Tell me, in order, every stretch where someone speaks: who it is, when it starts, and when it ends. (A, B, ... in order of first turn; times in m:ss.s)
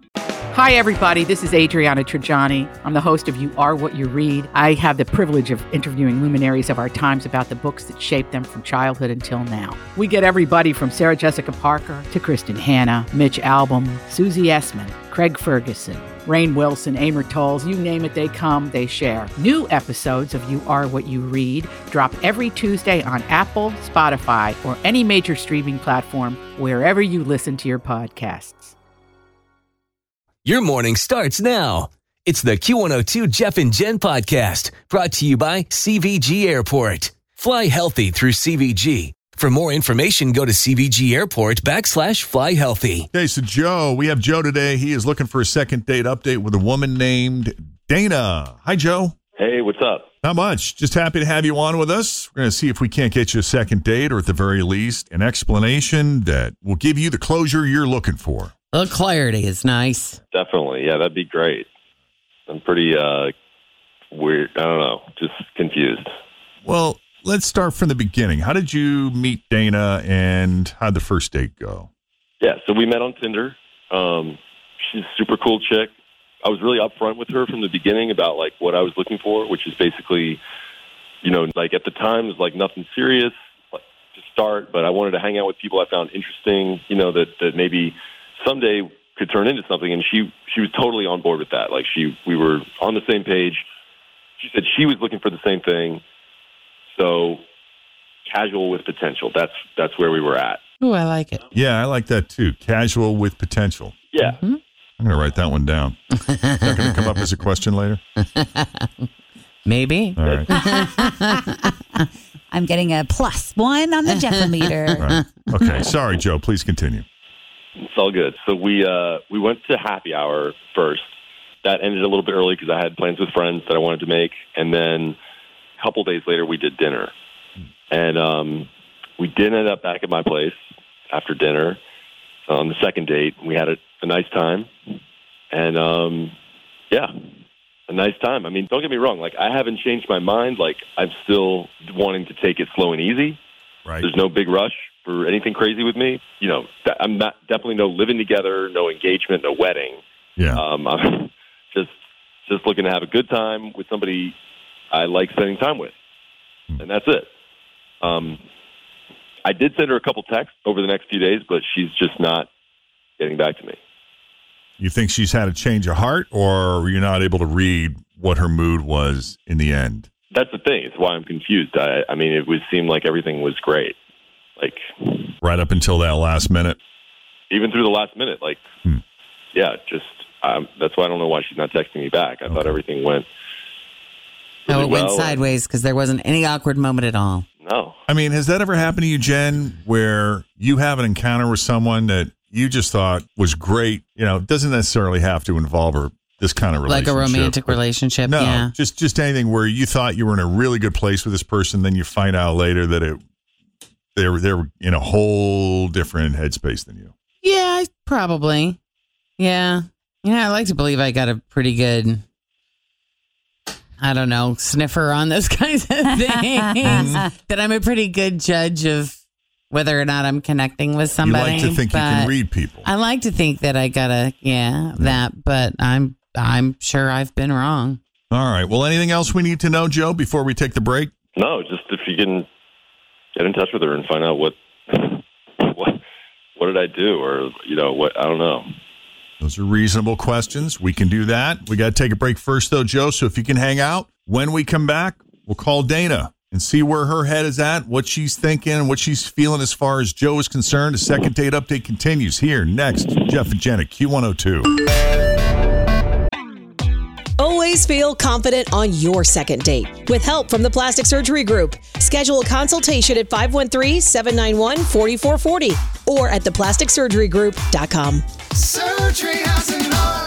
0:00.5-0:28.7 A
0:30.4-0:43.1 B
0:43.1-0:49.2 C
0:49.4-0:50.1 D
0:50.2-0:58.5 C
0:58.7-1:00.2 E
1:00.3-1:01.7 D
1:02.5-1:03.3 D
1:04.1-1:06.1 D
1:06.6-1:11.9 C
1:12.4-1:20.4 D
1:21.2-1:33.6 D
1:34.4-1:36.0 D
1:36.9-1:37.4 D
1:38.3-1:40.6 D
1:40.8-1:41.4 E
1:41.5-1:44.0 C
1:44.1-1:44.4 D
1:44.2-1:44.6 E
1:45.0-1:46.0 C
1:46.5-1:46.8 E
1:46.5-1:48.0 C
1:48.4-1:49.1 E
1:49.6-1:51.8 E
1:50.2-1:50.5 C
1:50.5-1:51.4 F
1:52.5-1:55.0 F
1:54.1-1:55.5 E
1:55.0-1:57.0 C
1:57.8-2:01.1 D
2:01.6-2:05.2 D
2:05.8-2:07.1 D
2:07.9-2:08.7 D
2:09.2-2:10.6 D
2:11.1-2:11.8 D
2:12.5-2:14.7 D
2:15.5-2:16.4 D
2:17.9-2:23.4 D
2:24.0-2:30.0 D
2:30.4-2:30.6 C
2:30.5-2:31.9 D
2:32.5-2:34.4 D
2:34.9-2:35.9 D
2:36.8-2:37.3 D
2:38.0-2:38.4 D
2:39.4-2:42.5 D
2:43.2-2:43.8 D
2:44.8-2:50.1 C
2:50.3-2:54.0 D
2:54.6-2:55.4 D
2:55.4-2:56.8 C
2:57.5-2:58.7 D
2:59.5-3:03.3 D
3:02.5-3:02.8 C
3:04.7-3:05.4 D
3:04.7-3:07.5 E
3:07.6-3:08.0 D
3:08.1-3:23.2 C
3:16.9-3:18.7 E
3:24.2-3:27.1 C
3:27.4-3:28.8 E
3:29.4-3:32.2 E
3:34.0-3:39.2 E
3:36.8-3:37.3 C
3:36.9-3:37.3 F
3:39.7-3:48.0 E
3:41.2-3:42.9 C
3:48.3-3:51.1 C
3:51.4-3:52.5 D
3:53.4-3:56.0 D
3:56.6-3:58.7 D
3:59.4-4:14.7 C
4:17.4-4:28.2 G